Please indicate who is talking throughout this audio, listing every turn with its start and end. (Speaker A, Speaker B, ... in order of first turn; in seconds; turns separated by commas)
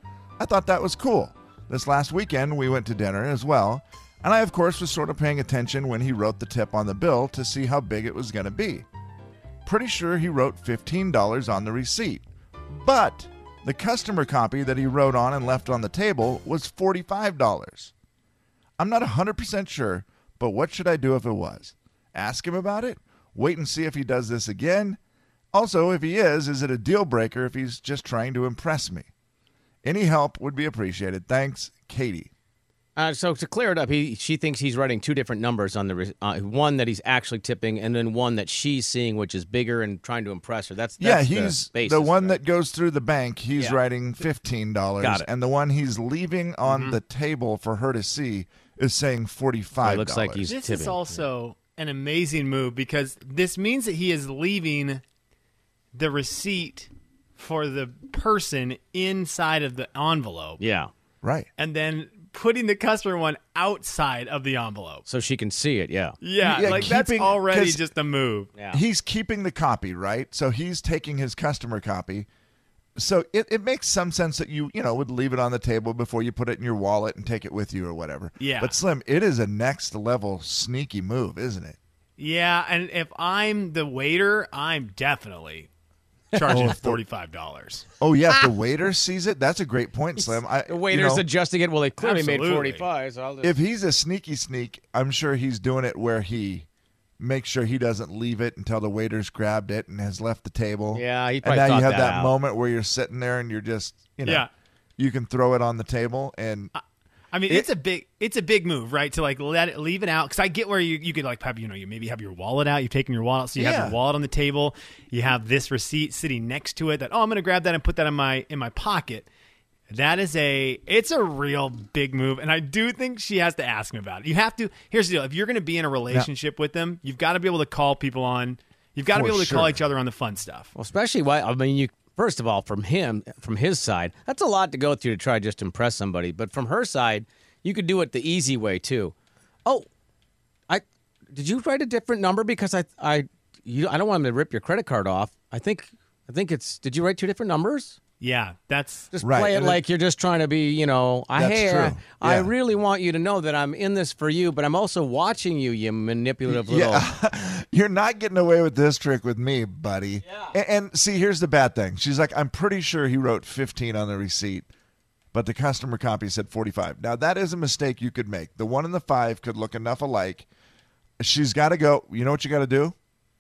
Speaker A: 0.4-8.9, Speaker A: 9.7-17.9, Speaker A: 18.8-25.0, Speaker A: 25.5-29.1, Speaker A: 29.8-32.3, Speaker B: 33.0-42.4, Speaker A: 41.0-50.5, Speaker B: 45.0-45.3, Speaker C: 46.7-47.0, Speaker B: 49.8-51.2, Speaker C: 50.5-55.0, Speaker C: 55.9-60.6, Speaker B: 60.6-60.9, Speaker A: 61.2-61.5, Speaker C: 61.6-65.0, Speaker B: 65.1-66.8, Speaker C: 66.2-68.5, Speaker A: 66.4-67.8, Speaker B: 68.6-68.8, Speaker A: 68.7-72.3, Speaker A: 73.0-81.8, Speaker C: 78.4-78.8, Speaker C: 82.2-85.7, Speaker C: 86.3-87.8, Speaker B: 86.3-86.7, Speaker A: 86.5-87.0, Speaker A: 88.0-91.2, Speaker B: 90.7-93.6, Speaker C: 92.0-92.8, Speaker A: 93.4-96.7, Speaker A: 97.2-104.5, Speaker B: 100.9-102.3, Speaker A: 105.0-106.7, Speaker C: 106.7-119.3, Speaker A: 113.6-114.0, Speaker C: 119.9-130.7, Speaker A: 129.1-129.8, Speaker B: 130.8-139.1, Speaker B: 140.7-148.0, Speaker C: 148.2-149.1, Speaker B: 149.1-157.1, Speaker A: 149.2-149.8, Speaker A: 151.4-152.5, Speaker A: 156.5-164.7, Speaker A: 165.3-170.5, Speaker A: 171.2-172.9